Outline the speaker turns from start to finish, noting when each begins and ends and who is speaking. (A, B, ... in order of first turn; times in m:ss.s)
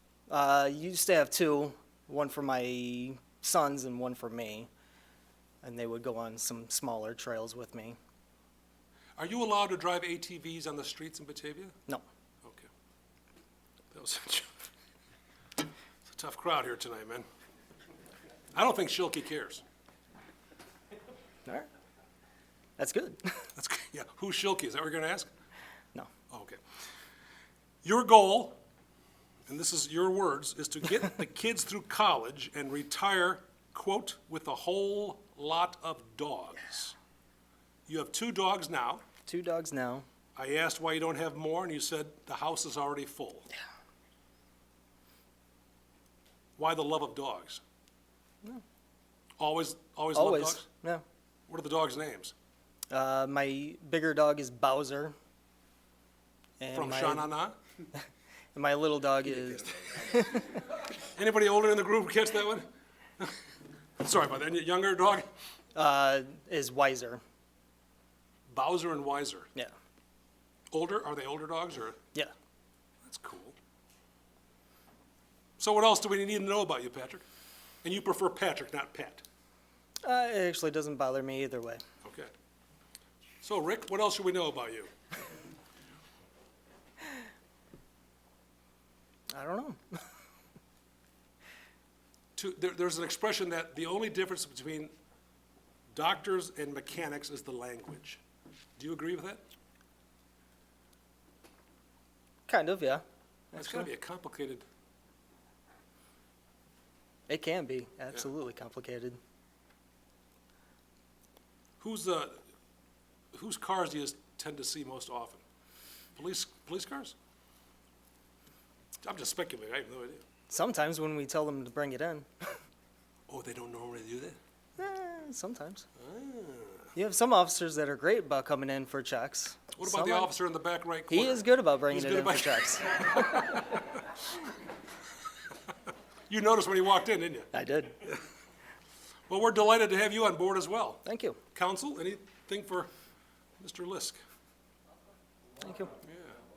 0:00.3-0:04.7 A
0:05.6-0:08.0 A
0:09.2-0:11.8 B
0:12.4-0:12.7 B
0:13.9-0:14.5 B
0:16.0-0:17.2 B
0:18.5-0:19.6 B
0:22.8-0:23.4 A
0:23.6-0:25.3 B
0:26.3-0:26.6 B
0:27.8-0:28.6 B
0:29.5-0:37.0 B
0:37.9-0:39.0 B
0:39.2-0:40.0 A
0:40.4-0:43.5 B
0:46.6-0:47.6 B
0:49.4-0:50.6 B
0:50.1-0:51.0 A
0:51.5-0:52.3 B
0:52.9-0:55.1 A
0:56.6-0:57.3 A
0:56.7-0:57.6 B
0:58.5-1:00.6 A
1:01.2-1:02.7 B
1:04.0-1:05.3 B
1:05.7-1:07.2 A
1:08.5-1:09.5 B
1:10.7-1:12.0 B
1:13.0-1:13.6 B
1:15.6-1:17.2 B
1:17.8-1:19.2 B
1:20.0-1:21.8 A
1:22.0-1:22.3 B
1:23.4-1:24.9 B
1:29.3-1:30.0 A
1:32.4-1:34.9 B
1:35.9-1:38.2 B
1:38.8-1:39.4 B
1:42.5-1:43.9 A
1:43.5-1:44.6 B
1:47.3-1:49.2 A
1:51.8-1:52.4 B
1:53.3-1:55.4 B
1:56.2-1:57.1 B
1:59.0-2:00.2 B
2:00.5-2:02.3 A
2:03.3-2:04.4 B
2:04.8-2:05.8 A
2:06.0-2:06.9 B
2:06.9-2:10.3 A
2:09.8-2:13.8 B
2:11.1-2:13.6 A
2:16.3-2:17.5 B
2:17.5-2:18.0 A
2:19.3-2:21.0 B
2:21.0-2:21.4 A
2:21.5-2:22.9 B
2:23.6-2:24.2 B
2:25.6-2:26.0 A
2:26.0-2:26.4 B